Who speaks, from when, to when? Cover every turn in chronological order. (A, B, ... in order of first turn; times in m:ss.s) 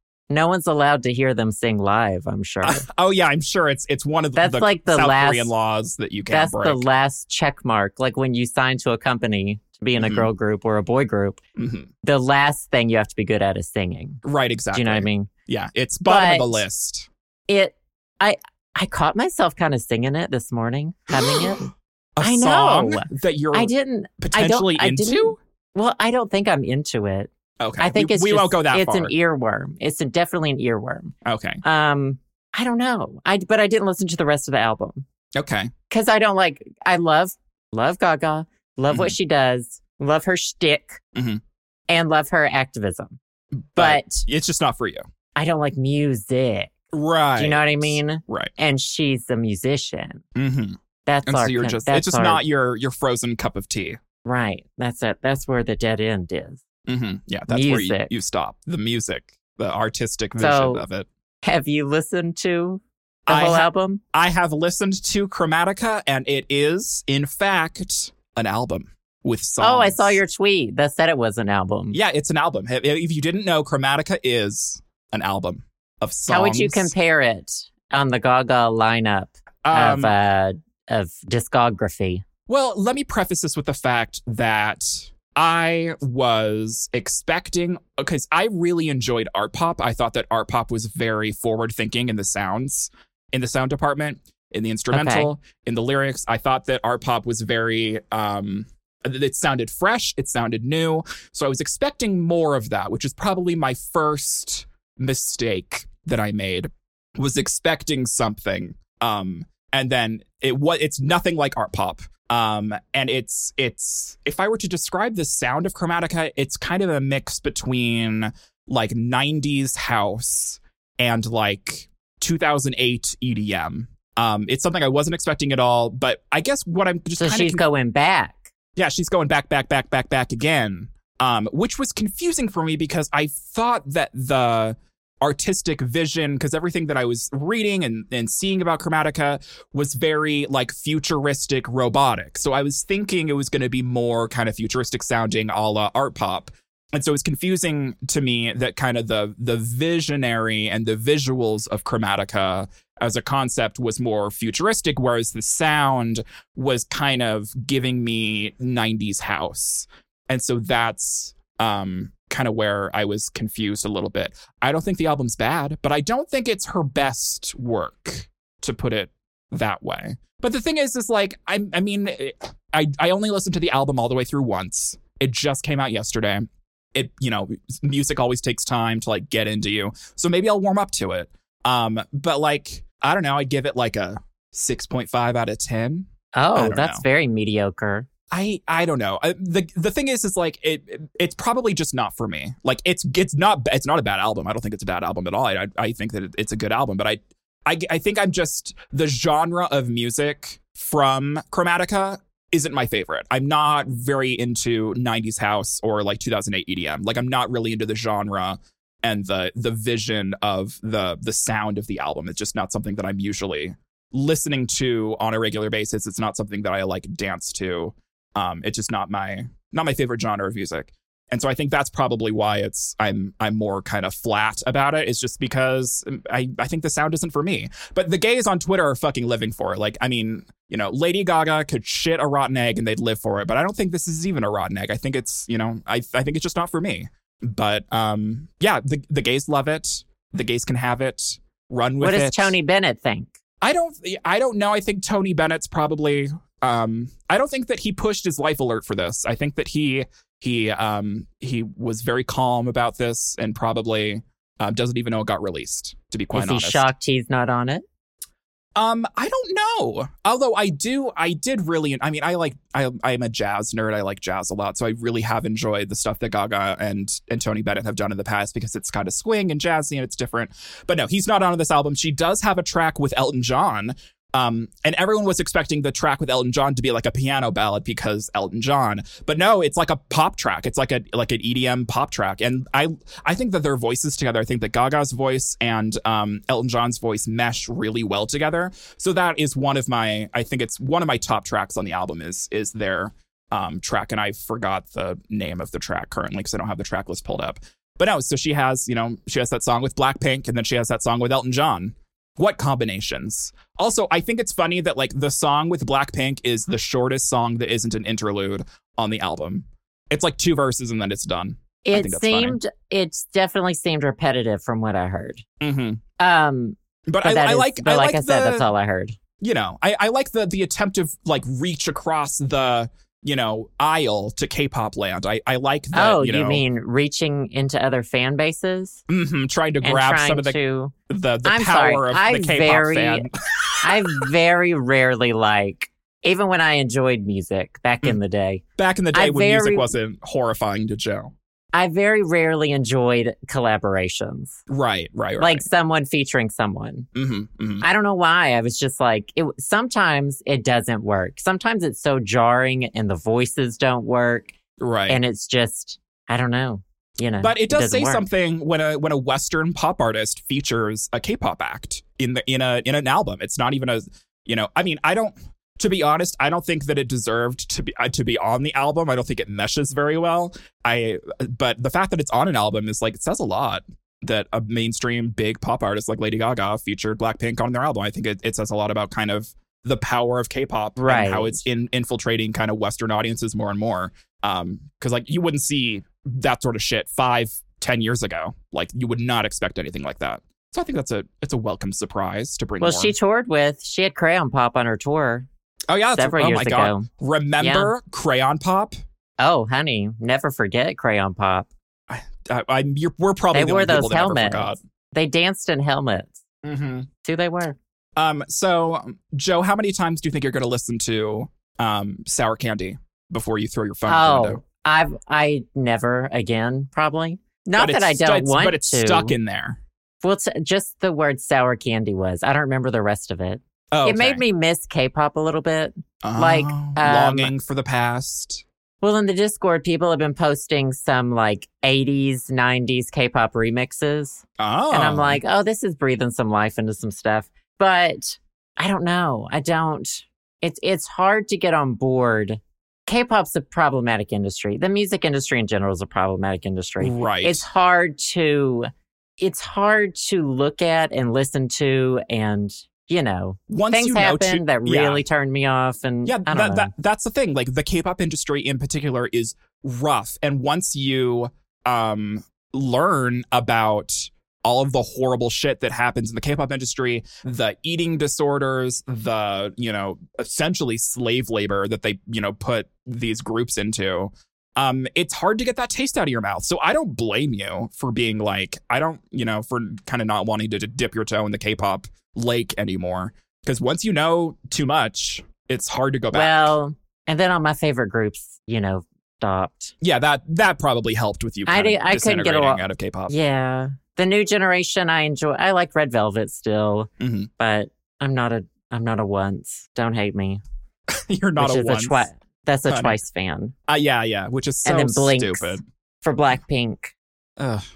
0:00.3-0:02.8 A
0:02.6-0:06.8 B
0:04.4-0:05.5 A
0:06.3-0:11.4 A
0:10.0-0:10.3 B
0:11.6-0:11.9 B
0:12.0-0:15.3 A
0:14.2-0:17.1 B
0:16.0-0:16.6 A
0:17.5-0:35.0 A
0:21.3-0:21.5 B
0:22.2-0:25.4 B
0:27.6-0:29.1 B
0:31.2-0:31.6 B
0:35.4-0:35.7 B
0:35.9-0:41.0 A
0:41.1-0:41.4 B
0:41.9-0:43.2 A
0:43.7-0:45.0 B
0:43.8-0:44.2 A
0:45.4-0:46.8 A
0:46.9-0:48.5 B
0:47.4-0:50.2 A
0:50.4-0:54.0 B
0:51.1-0:52.4 A
0:54.2-0:56.6 A
0:56.9-1:01.1 B
0:57.5-0:58.1 A
1:00.4-1:00.8 A
1:01.4-1:04.0 A
1:03.3-1:10.2 B
1:09.6-1:12.0 A
1:11.9-1:16.9 B
1:16.3-1:22.2 A
1:19.6-1:20.1 B
1:22.5-2:07.6 B
1:34.9-1:35.3 A
2:07.2-2:08.5 A
2:08.8-3:07.0 B
3:06.3-3:08.1 A
3:08.3-4:02.6 B
4:02.0-4:03.3 A
4:03.6-4:16.9 B
4:16.3-4:17.8 A
4:18.8-5:12.6 B
5:11.8-5:15.4 A
5:15.6-5:16.0 B
5:16.2-5:19.2 A
5:17.1-5:18.7 B
5:19.4-5:26.6 B
5:25.9-5:29.0 A
5:29.1-5:30.6 B
5:29.8-5:30.9 A
5:31.1-5:34.2 B
5:31.4-5:33.3 A
5:33.8-5:38.6 A
5:38.8-5:41.3 B
5:39.1-5:39.9 A
5:41.7-5:44.6 A
5:44.7-5:45.6 B
5:45.4-5:47.1 A
5:47.2-5:47.8 B
5:47.8-5:54.6 A
5:54.8-5:55.2 B
5:55.1-5:58.2 A
5:57.4-6:33.2 B
6:21.0-6:21.6 A
6:32.8-6:35.5 A
6:35.9-6:38.9 B
6:36.2-6:37.1 A
6:37.6-6:37.9 A
6:39.4-6:41.7 A
6:42.1-6:44.8 B
6:43.5-6:46.4 A
6:46.6-6:47.1 B
6:47.2-6:47.8 A
6:48.2-6:54.6 B
6:54.1-6:59.4 A
6:57.8-6:59.8 B
7:00.2-7:07.5 A
7:03.9-7:04.4 B
7:06.2-7:08.6 B
7:09.0-7:36.9 A
7:14.6-7:15.4 B
7:27.0-7:27.6 B
7:33.7-7:35.2 B
7:36.2-8:06.7 B
8:06.3-8:09.9 A
8:10.0-8:13.3 B
8:11.7-8:20.6 A
8:17.2-8:17.5 B
8:21.1-8:22.3 B
8:21.6-8:23.7 A
8:22.9-8:23.2 B
8:23.9-8:25.8 B
8:24.8-8:27.2 A
8:27.6-8:27.8 B